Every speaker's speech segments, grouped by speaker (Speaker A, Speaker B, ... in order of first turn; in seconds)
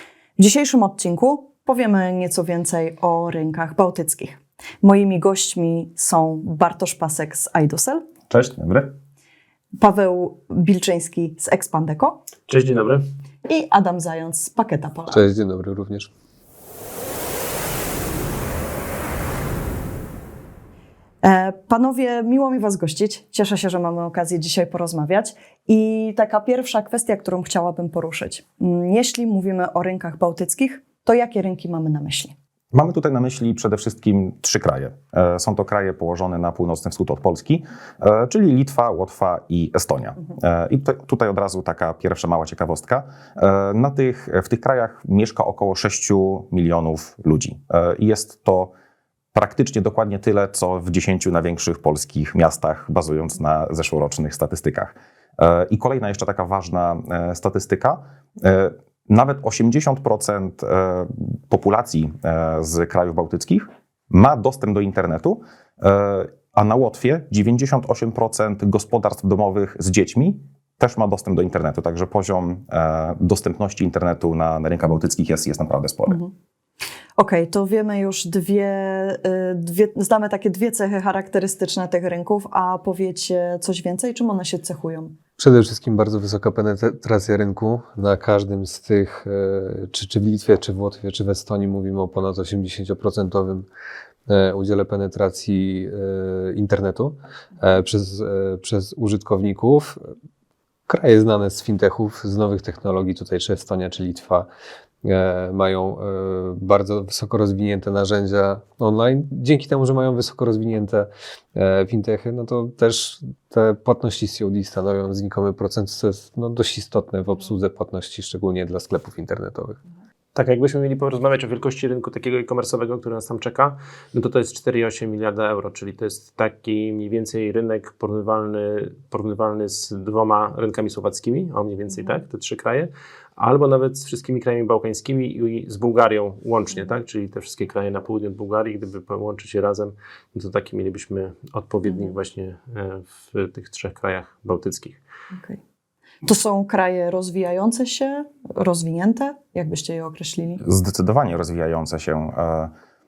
Speaker A: 0.4-8.0, 9.8-12.3, 13.5-15.3, 21.2-32.3, 76.1-76.3, 77.2-85.2, 141.9-142.2, 145.3-145.6, 146.2-150.6
Speaker B: 8.3-8.9, 32.7-48.7, 49.3-76.2, 150.6-152.7
Speaker C: 12.5-13.0, 120.3-145.0
Speaker D: 15.1-16.1, 85.4-93.6, 94.3-100.1, 100.9-104.5, 105.0-119.8